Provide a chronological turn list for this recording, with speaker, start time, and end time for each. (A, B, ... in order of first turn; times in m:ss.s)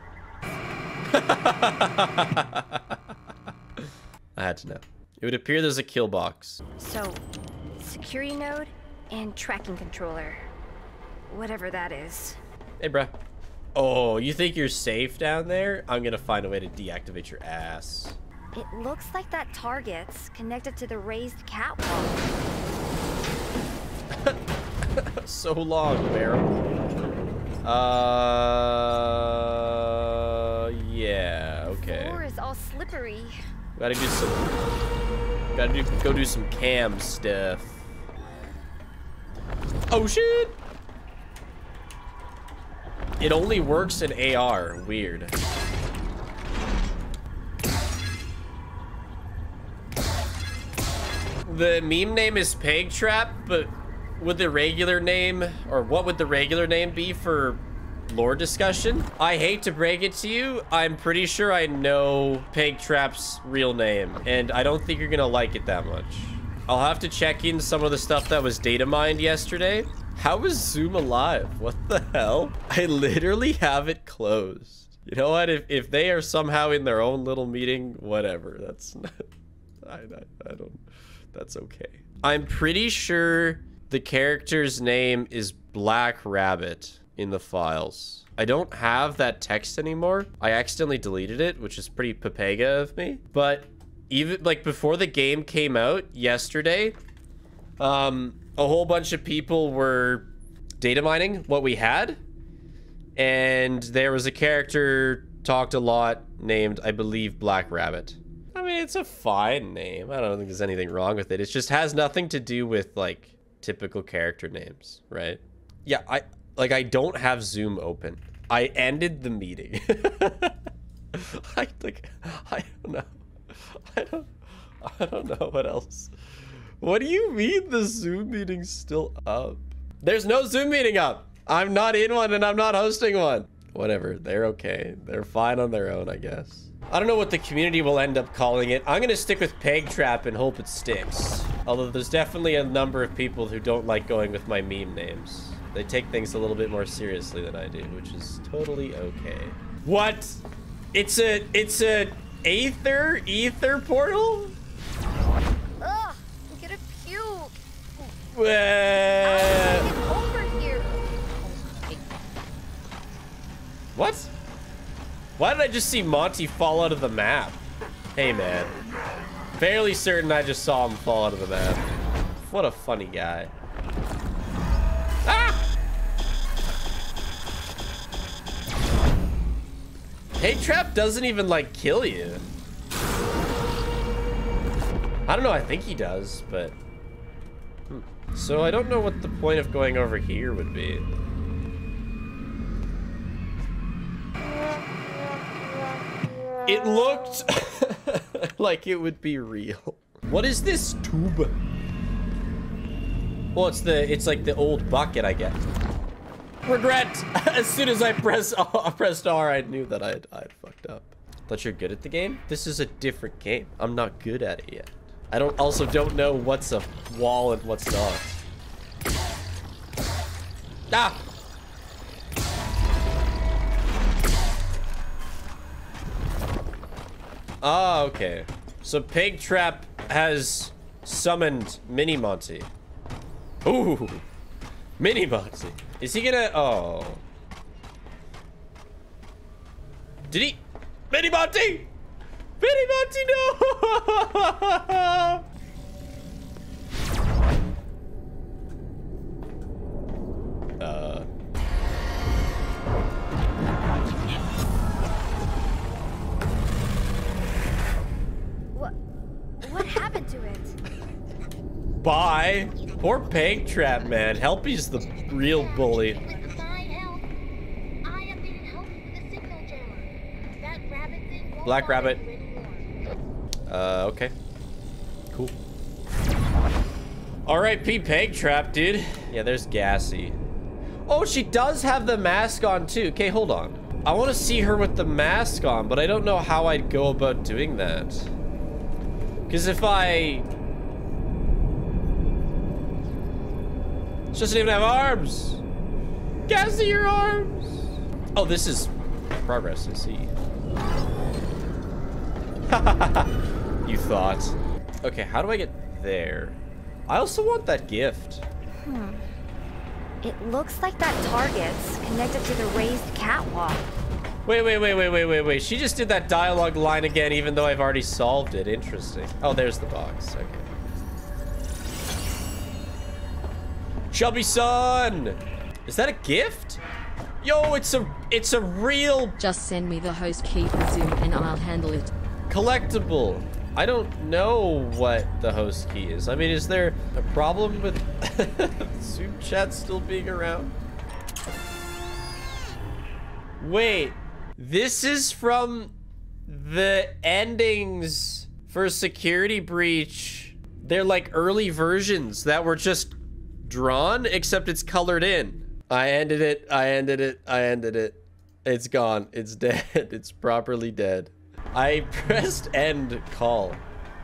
0:01.1-0:03.0 A
0:04.4-0:06.6 A
0:06.8-0:07.2 B
0:07.8-0:10.4 B
0:11.3-0:12.4 B
0:12.8-0:13.1 A
0:13.8-0:18.2 A
0:18.5-0:22.2 B
0:25.0-0:26.7 A
0:27.6-0:32.2 A
0:31.8-0:33.4 B
0:33.8-0:34.5 A
0:35.5-0:37.8 A
0:39.9-0:40.5 A
0:43.2-0:45.3 A
0:51.4-1:19.3 A
1:19.8-1:20.8 A
1:21.3-1:37.0 A
1:37.8-1:40.3 A
1:40.8-1:42.2 A
1:43.2-2:00.6 A
2:01.1-2:04.3 A
2:04.8-2:06.1 A
2:06.8-2:30.4 A
2:30.9-2:34.5 A
2:35.8-2:38.1 B
2:38.3-2:39.9 A
2:39.2-2:41.0 B
2:43.9-2:44.3 A
2:45.4-2:47.6 A
2:48.1-2:48.7 A
2:49.6-2:51.9 A
2:52.5-2:53.5 A
2:55.2-2:55.6 A
3:00.4-3:02.4 A
3:05.3-3:06.8 A
3:07.9-3:11.0 A
3:16.6-3:21.5 A
3:23.5-3:25.6 A
3:26.6-3:38.4 A
3:40.9-3:41.2 A
3:47.6-3:52.7 A
3:53.6-3:54.2 A
3:55.0-3:57.2 A
4:00.3-4:01.9 A
4:02.6-4:05.4 A
4:10.8-4:11.3 A
4:19.6-4:20.8 B
4:22.0-4:26.2 A
4:25.4-4:27.2 C
4:28.0-4:32.9 C
4:31.6-4:32.2 A
4:33.7-4:34.3 A
4:37.4-4:40.4 A
4:41.1-4:48.3 A
4:49.5-4:50.5 A
4:54.3-4:55.6 A
4:56.5-5:00.3 A
5:02.7-5:08.4 A
5:08.8-5:09.2 B
5:10.2-5:13.9 B
5:14.4-5:20.7 A
5:24.1-5:26.8 A
5:27.4-5:29.4 A
5:29.4-5:32.1 D
5:32.5-5:40.7 A
5:43.6-5:45.9 A
5:46.5-6:03.8 A